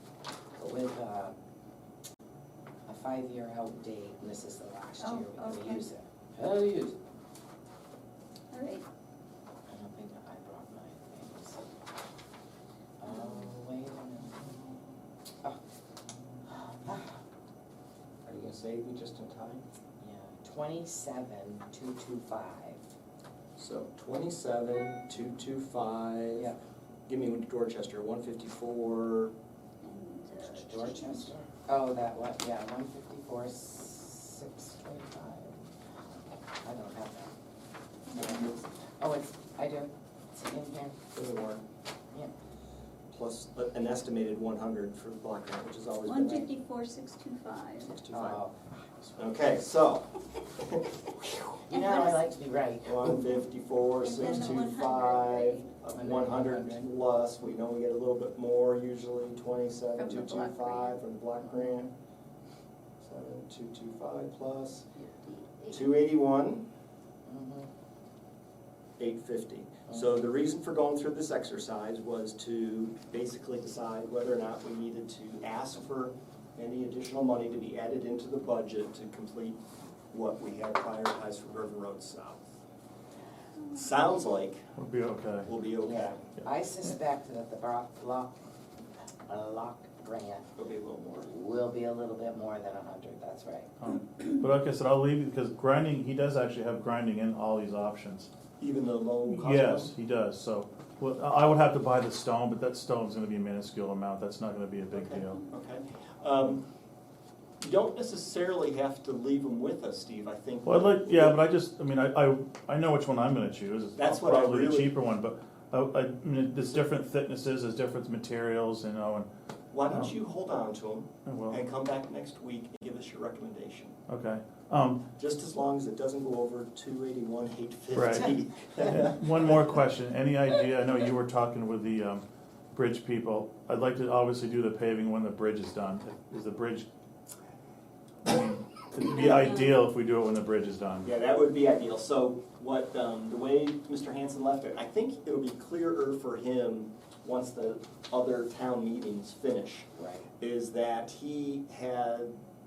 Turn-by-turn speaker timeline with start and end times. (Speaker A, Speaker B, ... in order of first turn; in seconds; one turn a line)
Speaker A: 0.6-1.4
Speaker A: 2.9-7.0
Speaker B: 5.0-5.8
Speaker B: 8.5-8.8
Speaker A: 9.7-11.7
Speaker A: 13.0-14.5
Speaker A: 16.6-17.1
Speaker C: 18.2-19.6
Speaker A: 20.0-22.8
Speaker C: 23.6-26.5
Speaker C: 27.1-29.3
Speaker B: 29.8-31.3
Speaker A: 30.5-35.6
Speaker A: 36.6-37.3
Speaker B: 38.1-38.5
Speaker A: 38.1-41.1
Speaker C: 41.1-41.6
Speaker C: 43.1-46.5
Speaker B: 46.1-48.0
Speaker C: 47.8-48.4
Speaker A: 48.1-48.5
Speaker C: 49.2-51.9
Speaker A: 51.7-53.2
Speaker B: 51.7-52.1
Speaker C: 52.8-61.9
Speaker B: 54.0-55.7
Speaker A: 55.9-56.9
Speaker B: 60.0-61.0
Speaker C: 63.0-64.8
Speaker B: 65.0-65.9
Speaker C: 65.7-66.7
Speaker A: 67.2-67.7
Speaker C: 69.0-82.4
Speaker B: 83.6-83.9
Speaker C: 83.7-84.7
Speaker D: 84.8-85.5
Speaker C: 85.4-86.2
Speaker A: 85.8-88.3
Speaker A: 89.3-90.5
Speaker C: 90.5-91.3
Speaker A: 91.2-93.7
Speaker D: 93.8-98.3
Speaker C: 98.6-99.9
Speaker D: 99.3-105.5
Speaker C: 104.9-106.6
Speaker C: 107.6-111.4
Speaker D: 110.7-119.3
Speaker C: 114.0-114.9
Speaker C: 119.7-124.0
Speaker D: 119.9-120.1
Speaker D: 121.2-121.6
Speaker D: 124.1-125.1
Speaker C: 125.1-129.7
Speaker D: 127.9-136.9
Speaker D: 138.2-141.1
Speaker C: 139.1-139.6
Speaker C: 141.0-149.9
Speaker A: 149.9-150.2
Speaker C: 150.4-152.3